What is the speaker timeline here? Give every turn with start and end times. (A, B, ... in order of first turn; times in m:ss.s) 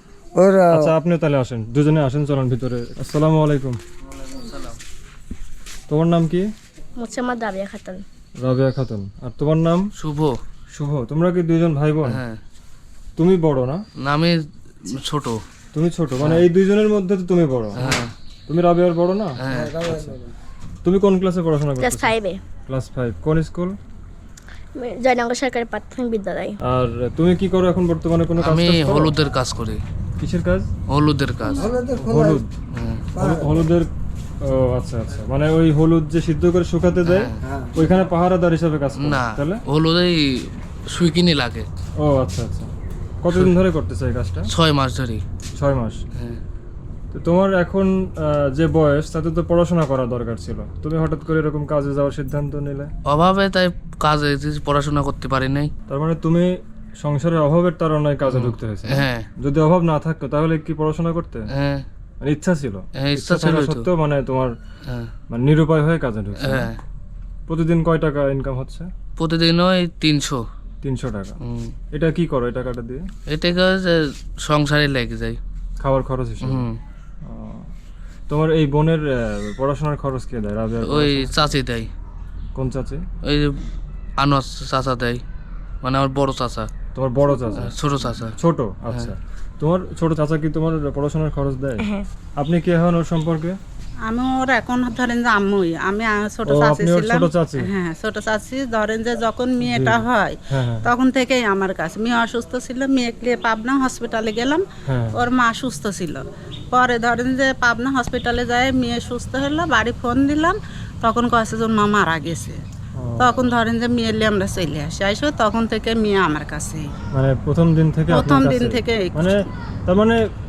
0:00.4-0:00.9 A
0:00.7-0:03.8 B
0:04.4-0:04.7 C
0:05.9-0:06.5 B
0:07.0-0:08.0 D
0:08.4-0:09.8 B
0:10.0-0:10.4 C
0:10.7-0:12.2 B
0:12.0-0:12.4 C
0:13.2-0:13.8 B
0:14.0-0:15.4 C
0:15.7-0:20.1 B
0:16.2-0:16.5 C
0:17.8-0:18.1 C
0:19.4-0:19.8 C
0:19.5-0:20.3 A
0:20.8-0:23.8 B
0:21.8-0:22.4 D
0:24.8-0:26.6 D
0:26.6-0:29.1 B
0:28.4-0:29.8 C
0:30.2-0:30.7 B
0:30.9-0:31.7 C
0:31.5-0:32.4 A
0:32.0-0:32.5 B
0:32.7-0:33.0 C
0:33.2-0:33.7 A
0:33.2-0:33.9 B
0:34.4-0:39.6 B
0:37.0-0:37.4 C
0:37.4-0:37.7 A
0:39.0-0:40.2 C
0:40.9-0:41.7 C
0:42.0-0:42.7 B
0:43.2-0:44.5 B
0:44.5-0:45.2 C
0:45.6-0:46.0 B
0:47.1-0:52.9 B
0:53.1-0:55.7 C
0:55.9-1:01.5 B
0:58.3-0:59.3 C
1:01.5-1:01.8 C
1:02.2-1:04.6 B
1:03.0-1:03.9 C
1:05.3-1:06.7 B
1:06.4-1:06.8 C
1:07.5-1:08.9 B
1:09.2-1:10.4 C
1:10.8-1:11.4 B
1:11.4-1:11.7 C
1:11.9-1:13.1 B
1:13.3-1:15.4 C
1:15.8-1:16.7 B
1:16.4-1:16.8 C
1:17.2-1:17.7 B
1:18.3-1:21.5 B
1:20.9-1:21.9 C
1:22.6-1:23.0 B
1:23.2-1:23.5 C
1:24.2-1:25.2 C
1:25.8-1:26.7 C
1:26.9-1:27.8 B
1:27.6-1:28.4 C
1:28.3-1:31.9 B
1:31.8-1:32.1 D
1:32.4-1:33.6 B
1:34.1-1:44.6 E
1:36.5-1:37.7 B
1:39.6-1:40.9 B
1:44.9-1:45.2 B
1:45.1-1:52.6 E
1:53.0-1:53.5 B
1:53.2-1:56.9 E
1:57.1-2:00.3 B
1:58.1-1:59.4 E